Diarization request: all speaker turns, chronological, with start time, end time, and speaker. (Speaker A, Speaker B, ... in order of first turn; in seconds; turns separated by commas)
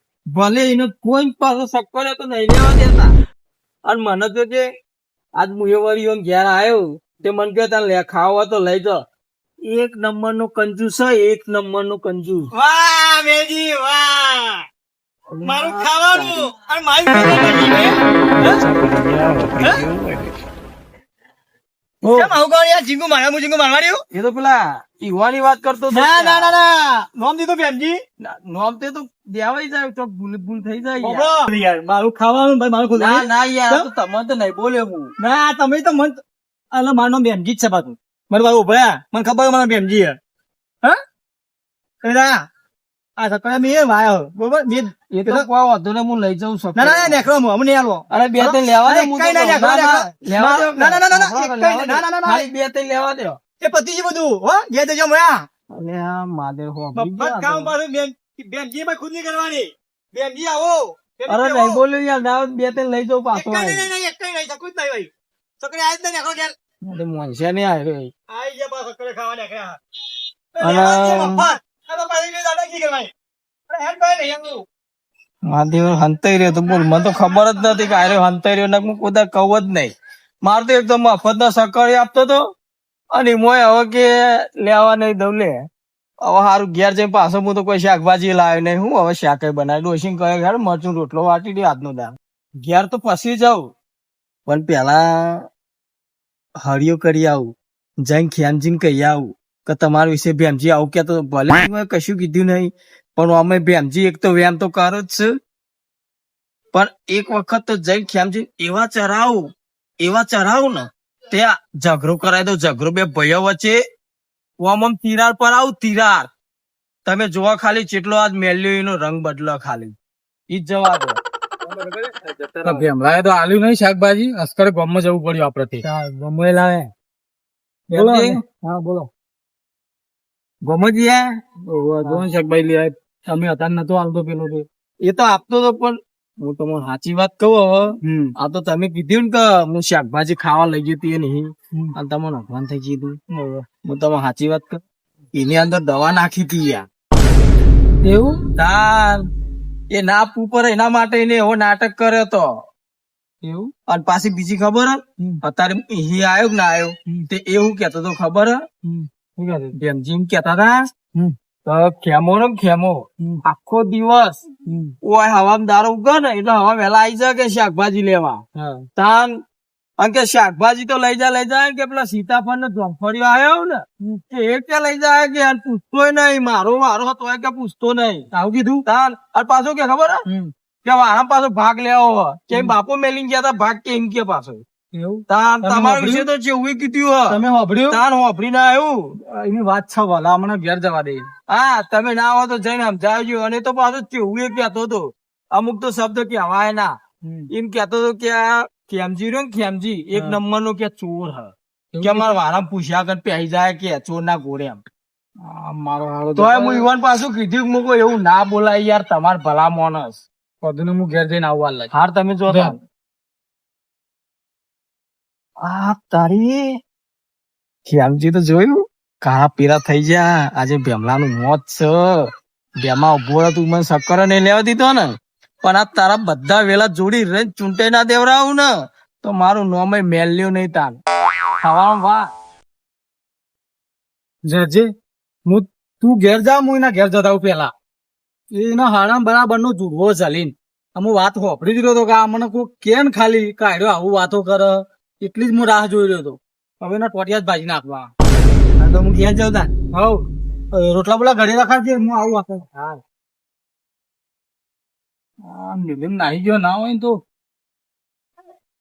Speaker A: 0.3-3.1, Speaker A: 3.8-4.7, Speaker A: 5.3-9.0, Speaker A: 9.6-12.5, Speaker B: 12.5-14.6, Speaker A: 15.3-16.5, Speaker B: 15.4-18.6, Speaker A: 18.4-20.4, Speaker A: 22.0-22.4, Speaker B: 22.0-24.0, Speaker A: 24.1-26.6, Speaker B: 25.9-28.0, Speaker A: 28.2-31.4, Speaker B: 31.0-33.9, Speaker A: 32.9-35.1, Speaker B: 35.2-36.2, Speaker B: 36.7-40.2, Speaker B: 42.0-42.5, Speaker B: 43.2-45.5, Speaker A: 45.1-47.2, Speaker B: 46.8-52.5, Speaker A: 48.1-53.4, Speaker B: 53.6-55.5, Speaker A: 55.7-57.7, Speaker B: 56.9-61.8, Speaker A: 61.3-63.9, Speaker B: 63.3-66.5, Speaker A: 66.8-68.1, Speaker B: 68.3-69.8, Speaker B: 70.5-73.1, Speaker A: 70.6-71.5, Speaker B: 73.7-74.6, Speaker A: 75.5-82.5, Speaker B: 76.7-78.2, Speaker A: 83.1-85.7, Speaker A: 86.2-93.7, Speaker A: 94.5-95.5, Speaker A: 96.6-105.3, Speaker A: 106.7-113.8, Speaker A: 114.6-116.3, Speaker A: 117.0-119.9, Speaker A: 120.5-122.8, Speaker C: 122.6-125.9, Speaker A: 125.8-126.8, Speaker A: 127.9-128.4, Speaker C: 127.9-129.1, Speaker A: 130.6-131.4, Speaker C: 131.6-134.6, Speaker A: 135.0-143.2, Speaker C: 138.0-138.3, Speaker C: 143.3-143.7, Speaker A: 143.8-144.8, Speaker A: 145.3-146.9, Speaker C: 148.0-148.4, Speaker A: 148.5-149.2, Speaker A: 149.9-152.5, Speaker C: 153.4-153.7, Speaker A: 153.8-158.7, Speaker C: 158.8-159.7, Speaker A: 159.7-160.9, Speaker A: 161.6-164.4, Speaker C: 164.6-164.9, Speaker A: 165.0-169.4, Speaker C: 168.5-168.8, Speaker A: 170.0-178.3, Speaker C: 178.3-178.8, Speaker A: 178.8-180.2, Speaker C: 180.3-180.5, Speaker A: 180.8-184.6, Speaker C: 184.9-186.3, Speaker A: 185.3-189.2, Speaker C: 187.3-188.0, Speaker C: 189.2-191.3, Speaker A: 191.5-197.0, Speaker C: 197.2-197.5, Speaker A: 197.5-204.9, Speaker C: 200.1-200.4, Speaker C: 201.9-202.4, Speaker C: 205.4-206.9, Speaker A: 206.3-210.2, Speaker C: 210.6-211.9, Speaker A: 211.9-212.8, Speaker C: 212.5-212.8, Speaker A: 215.6-216.8, Speaker A: 217.8-231.0, Speaker A: 231.6-232.3, Speaker C: 234.4-234.9, Speaker C: 235.4-237.7, Speaker C: 238.5-248.1, Speaker A: 248.8-249.7, Speaker C: 249.9-253.0, Speaker C: 255.4-257.2